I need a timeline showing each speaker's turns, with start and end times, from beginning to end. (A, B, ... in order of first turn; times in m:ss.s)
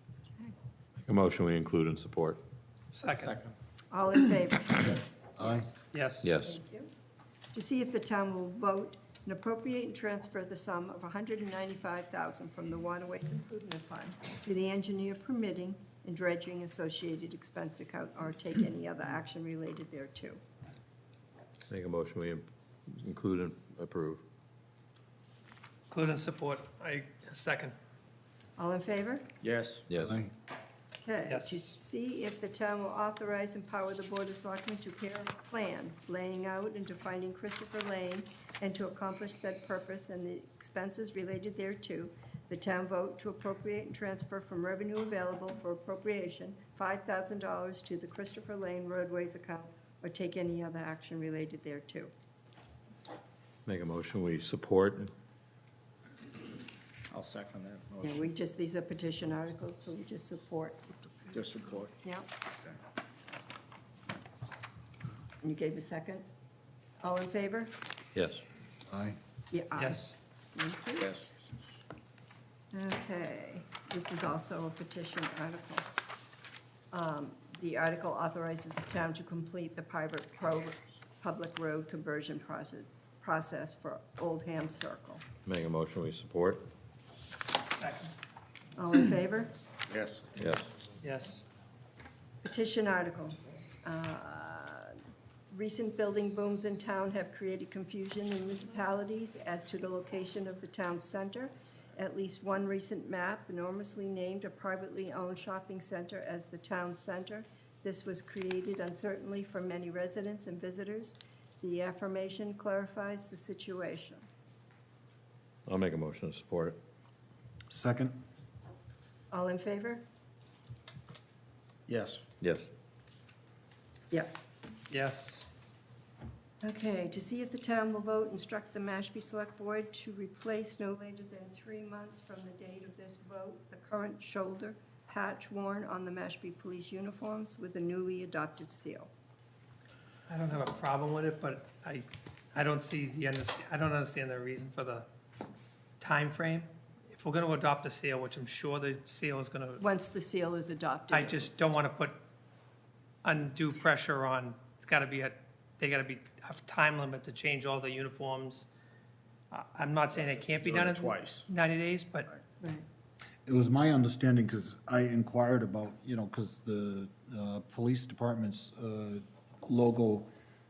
0:01.0-0:02.4 A
0:02.9-0:03.3 B
0:03.2-0:03.5 C
0:03.9-0:06.9 D
0:05.4-0:05.6 E
0:05.9-0:06.3 B
0:06.2-0:06.6 A
0:07.5-0:20.4 D
0:21.7-0:24.2 A
0:25.9-0:27.7 B
0:28.6-0:29.3 D
0:29.4-0:29.8 C
0:29.9-0:30.2 A
0:31.0-0:52.1 D
0:31.3-0:31.7 B
0:53.6-0:55.1 A
0:57.1-0:58.3 C
0:58.0-1:01.1 D
1:01.3-1:01.9 C
1:02.0-1:02.3 D
1:05.4-1:06.2 D
1:07.0-1:07.7 D
1:08.1-1:08.4 A
1:08.9-1:09.2 E
1:09.5-1:11.1 D
1:09.8-1:10.1 B
1:11.0-1:11.4 C
1:12.7-1:15.9 D
1:16.9-1:25.2 D
1:25.4-1:26.7 A
1:27.8-1:28.1 B
1:28.8-1:29.5 D
1:29.9-1:30.3 C
1:30.3-1:30.7 A
1:31.0-1:31.4 B
1:32.4-1:34.9 D
1:35.5-1:54.2 D
1:55.6-1:56.8 A
1:57.7-1:58.2 E
1:59.3-2:00.0 D
2:01.9-2:02.2 C
2:02.4-2:02.7 A
2:04.1-2:04.5 D
2:04.9-2:05.4 B
2:06.6-2:19.1 D
2:20.3-2:25.0 B
2:26.0-2:29.8 B
2:29.8-2:31.5 D
2:31.1-2:32.2 B
2:33.2-2:38.7 B
2:39.5-2:42.3 B
2:40.1-2:41.5 C
2:43.4-2:50.3 E